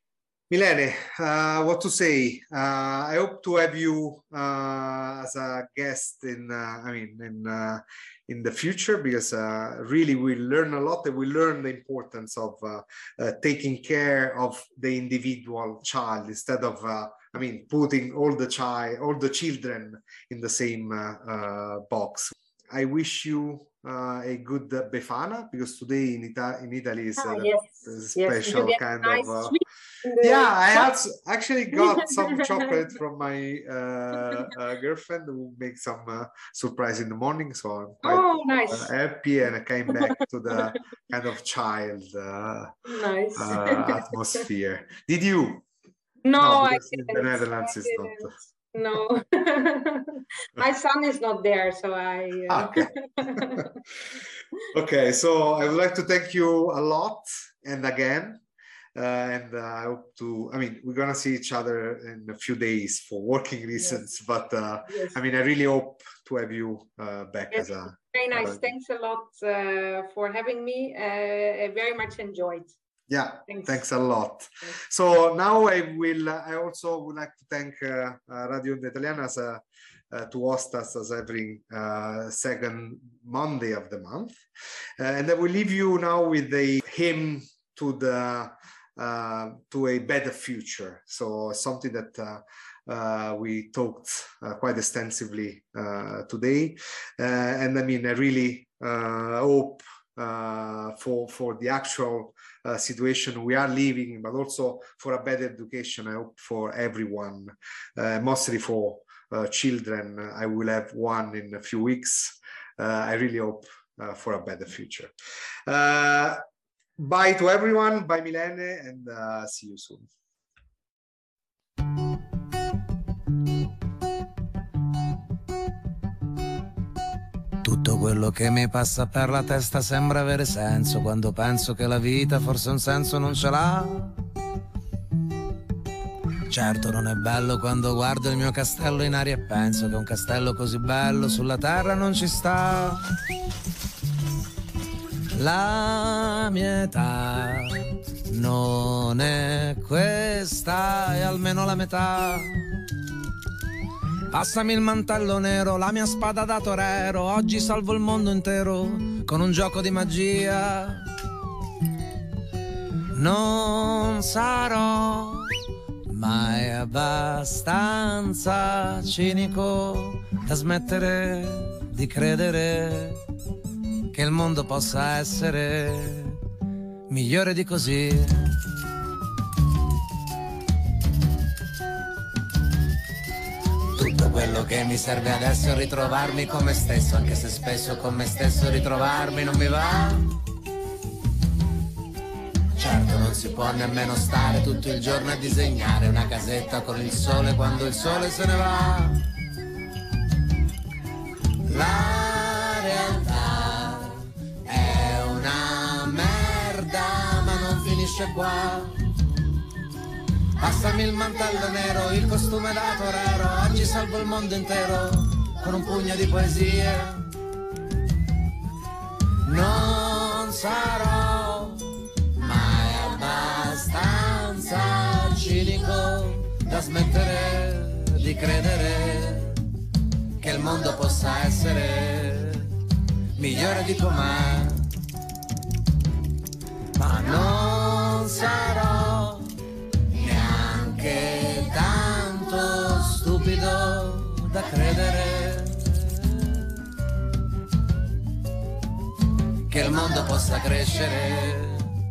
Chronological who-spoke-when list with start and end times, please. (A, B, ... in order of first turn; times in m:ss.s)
0:00.5-0:29.6 A
0:27.2-0:30.9 B
0:30.2-0:42.7 A
0:38.0-0:38.9 B
0:42.8-0:44.1 B
0:43.4-0:45.6 A
0:46.2-0:53.8 B
0:46.4-0:48.3 A
0:52.5-0:53.6 A
0:54.7-0:58.4 A
0:58.9-1:08.6 A
1:04.9-1:05.2 B
1:07.5-1:12.7 B
1:13.1-1:24.4 A
1:13.5-1:13.7 B
1:25.0-1:55.1 A
1:55.6-1:56.4 A
1:57.0-2:00.1 A
2:07.6-2:14.2 C
2:16.5-2:23.0 C
2:25.3-2:32.6 C
2:34.3-2:41.0 C
2:43.1-2:45.5 C
2:46.1-2:53.2 C
2:54.1-2:56.4 C
2:57.1-2:58.4 C
3:04.0-3:10.2 C
3:12.8-3:19.2 C
3:21.7-3:29.0 C
3:30.6-3:37.3 C
3:39.4-3:41.8 C
3:42.4-3:49.6 C
3:50.4-3:52.7 C
3:53.4-3:54.9 C
3:57.0-3:59.5 C
4:00.1-4:06.4 C
4:09.7-4:11.9 C